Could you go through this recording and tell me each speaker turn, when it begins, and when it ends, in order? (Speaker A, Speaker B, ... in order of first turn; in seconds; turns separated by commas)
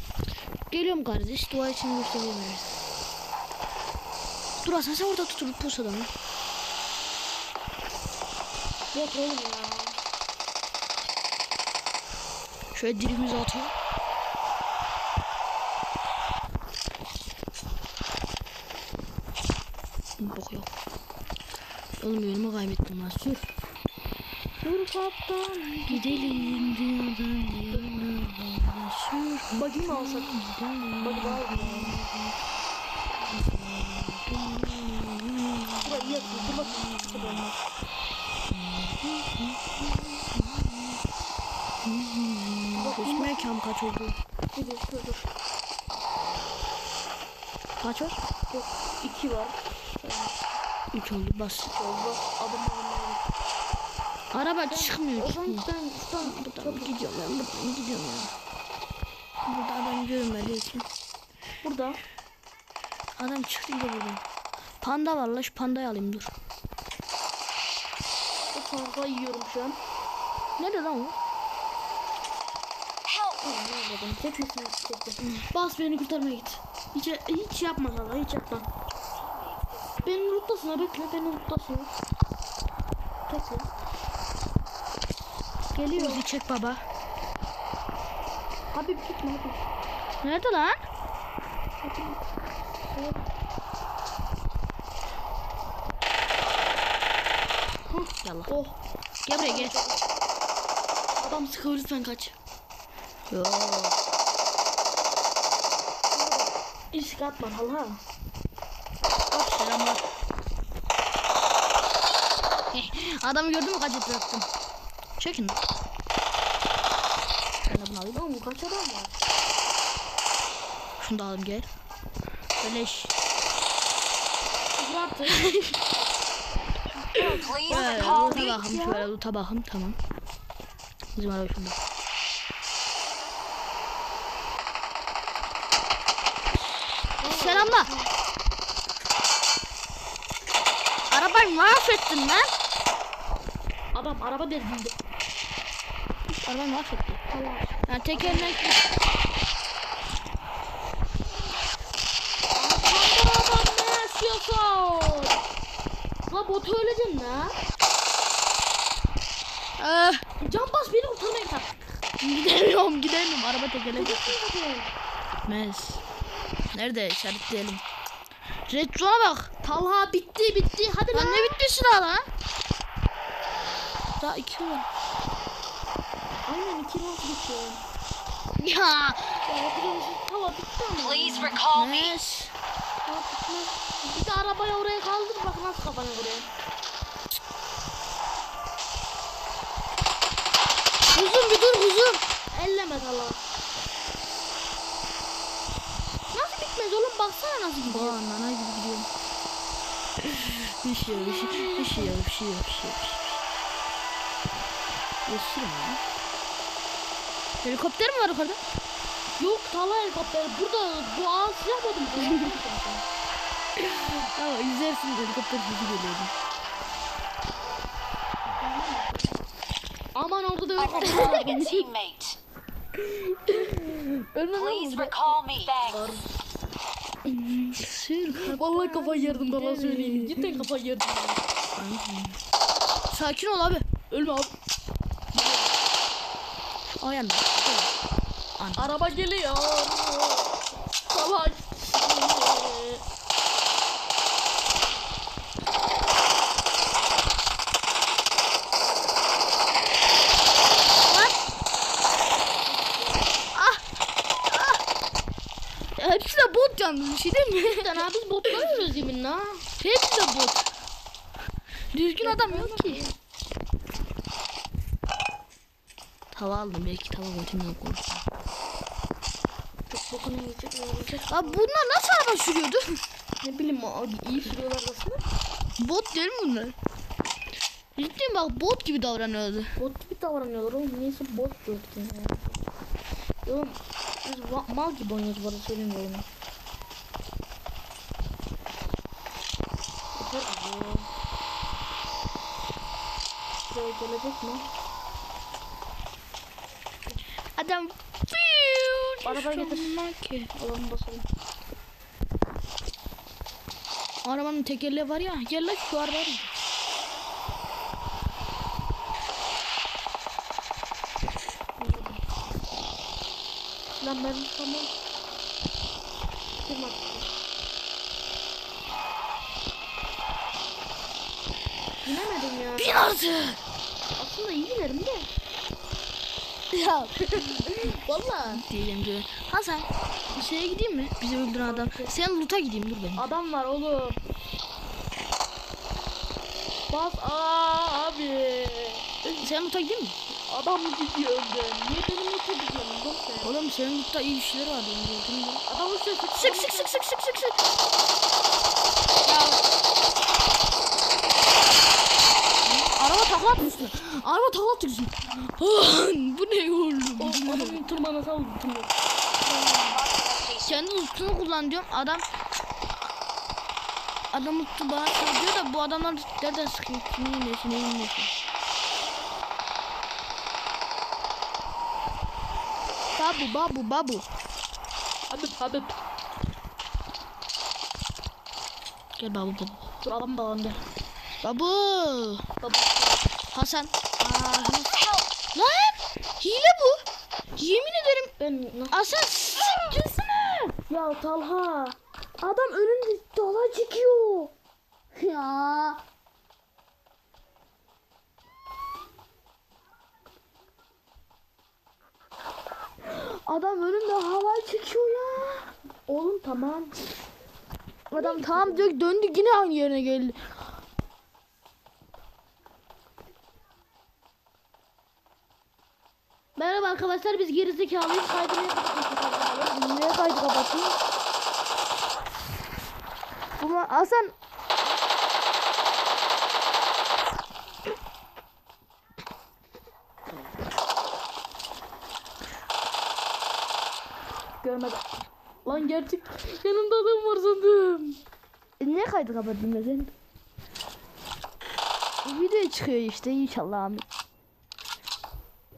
Speaker A: 0.7-2.8, Speaker A: 4.6-6.1, Speaker B: 8.9-10.0, Speaker A: 12.7-13.7, Speaker A: 20.2-20.7, Speaker A: 22.0-23.5, Speaker B: 24.6-26.7, Speaker A: 25.9-32.4, Speaker B: 29.5-30.4, Speaker B: 31.0-32.0, Speaker A: 33.2-37.4, Speaker B: 35.8-37.6, Speaker A: 38.5-41.0, Speaker A: 41.8-44.2, Speaker B: 42.7-43.5, Speaker B: 44.5-45.3, Speaker A: 47.8-48.2, Speaker B: 48.5-50.5, Speaker A: 50.9-51.7, Speaker B: 51.7-53.2, Speaker A: 54.3-55.7, Speaker B: 54.7-57.1, Speaker A: 56.2-58.3, Speaker A: 59.5-60.9, Speaker B: 61.6-62.0, Speaker A: 63.2-64.2, Speaker A: 64.8-66.3, Speaker B: 68.5-69.8, Speaker A: 70.6-71.2, Speaker B: 73.4-75.5, Speaker A: 75.3-76.6, Speaker B: 76.2-78.7, Speaker B: 80.0-81.9, Speaker B: 83.3-83.7, Speaker B: 85.8-86.2, Speaker A: 85.9-86.8, Speaker B: 88.7-89.7, Speaker A: 90.2-90.8, Speaker B: 91.8-92.2, Speaker B: 92.8-93.2, Speaker B: 97.9-98.8, Speaker A: 98.2-98.5, Speaker A: 99.2-99.8, Speaker B: 99.3-100.0, Speaker B: 101.2-102.3, Speaker A: 103.3-104.0, Speaker B: 106.1-108.0, Speaker A: 109.3-110.1, Speaker A: 112.7-114.5, Speaker A: 115.2-115.6, Speaker A: 117.7-118.2, Speaker B: 118.1-119.2, Speaker A: 121.0-121.7, Speaker A: 122.6-123.1, Speaker B: 124.8-125.5, Speaker A: 125.3-125.8, Speaker B: 127.0-129.1, Speaker C: 127.2-128.5, Speaker A: 127.2-130.0, Speaker A: 131.2-131.8, Speaker B: 137.2-138.1, Speaker A: 137.2-137.9, Speaker A: 141.1-142.5, Speaker B: 143.9-144.9, Speaker A: 146.3-147.2, Speaker B: 147.3-148.7, Speaker A: 147.9-148.8, Speaker B: 152.6-155.4, Speaker B: 156.3-157.6, Speaker A: 159.8-160.3, Speaker B: 160.4-161.7, Speaker A: 162.2-164.4, Speaker B: 163.9-164.9, Speaker A: 165.5-166.0, Speaker A: 166.7-167.8, Speaker A: 168.7-169.5, Speaker B: 169.6-171.6, Speaker A: 171.1-172.3, Speaker A: 174.2-174.9, Speaker B: 176.5-177.8, Speaker A: 178.6-179.4, Speaker B: 179.5-181.6, Speaker C: 181.0-182.2, Speaker A: 181.6-182.5, Speaker B: 183.1-186.5, Speaker A: 191.1-192.3, Speaker B: 192.5-193.4, Speaker B: 196.3-198.2, Speaker A: 197.9-199.1, Speaker A: 200.2-203.4, Speaker B: 201.1-202.2, Speaker A: 205.3-206.0, Speaker A: 207.6-208.6, Speaker B: 209.4-213.0, Speaker A: 212.2-212.6, Speaker A: 213.8-216.3, Speaker B: 218.6-219.4, Speaker B: 220.2-221.9, Speaker C: 220.8-222.4, Speaker A: 221.2-221.8, Speaker B: 223.1-225.2, Speaker C: 224.5-226.2, Speaker A: 224.5-224.8, Speaker B: 225.8-226.2, Speaker B: 227.4-227.8, Speaker A: 227.8-230.7, Speaker B: 228.4-231.4, Speaker A: 231.8-232.4, Speaker A: 233.1-233.9, Speaker B: 234.1-234.6, Speaker B: 235.3-235.7, Speaker A: 237.0-237.9, Speaker A: 238.6-239.1, Speaker B: 238.8-243.0, Speaker A: 251.0-251.4, Speaker B: 252.6-253.4, Speaker A: 253.5-253.8, Speaker A: 254.3-254.8, Speaker A: 256.0-258.0, Speaker B: 257.6-259.6, Speaker A: 259.8-260.6, Speaker A: 261.9-263.0, Speaker B: 262.2-263.2, Speaker A: 266.3-268.2, Speaker B: 269.9-271.7, Speaker A: 271.3-273.0, Speaker B: 273.4-275.3, Speaker A: 275.8-276.8, Speaker A: 278.0-279.7, Speaker B: 279.8-282.6, Speaker B: 283.4-286.3, Speaker B: 290.2-291.1, Speaker B: 293.7-294.7, Speaker A: 297.6-300.5, Speaker B: 299.2-300.0, Speaker B: 300.6-301.3, Speaker A: 304.2-306.5, Speaker B: 311.8-312.2, Speaker B: 314.0-314.9, Speaker B: 316.6-317.3, Speaker B: 322.0-322.9, Speaker A: 322.8-323.6, Speaker B: 324.2-325.3, Speaker A: 326.7-333.3, Speaker B: 327.2-328.6, Speaker B: 331.6-332.1, Speaker B: 333.2-334.2, Speaker B: 336.9-339.2, Speaker A: 339.4-340.2, Speaker B: 340.3-343.5, Speaker A: 343.4-345.6, Speaker B: 345.7-347.0, Speaker A: 346.4-347.6, Speaker A: 349.2-349.6, Speaker A: 352.7-357.8, Speaker B: 357.2-358.9, Speaker C: 359.9-360.8, Speaker A: 360.6-362.2, Speaker A: 364.3-368.3, Speaker A: 373.2-374.3, Speaker B: 375.3-375.9, Speaker A: 379.2-379.8, Speaker B: 380.0-380.8, Speaker A: 381.4-382.5, Speaker B: 382.6-383.2, Speaker A: 383.5-384.9, Speaker C: 384.9-385.3, Speaker A: 385.5-387.0, Speaker A: 387.6-388.3, Speaker B: 388.4-389.0, Speaker A: 388.9-390.8, Speaker B: 390.9-392.0, Speaker A: 392.4-394.5, Speaker A: 395.1-396.0, Speaker A: 403.0-405.7, Speaker B: 406.1-407.0, Speaker A: 408.1-410.6, Speaker B: 408.2-408.9, Speaker A: 416.6-421.0, Speaker A: 423.6-424.4, Speaker B: 434.6-435.0, Speaker B: 435.6-438.2, Speaker A: 438.8-440.1, Speaker A: 442.2-444.1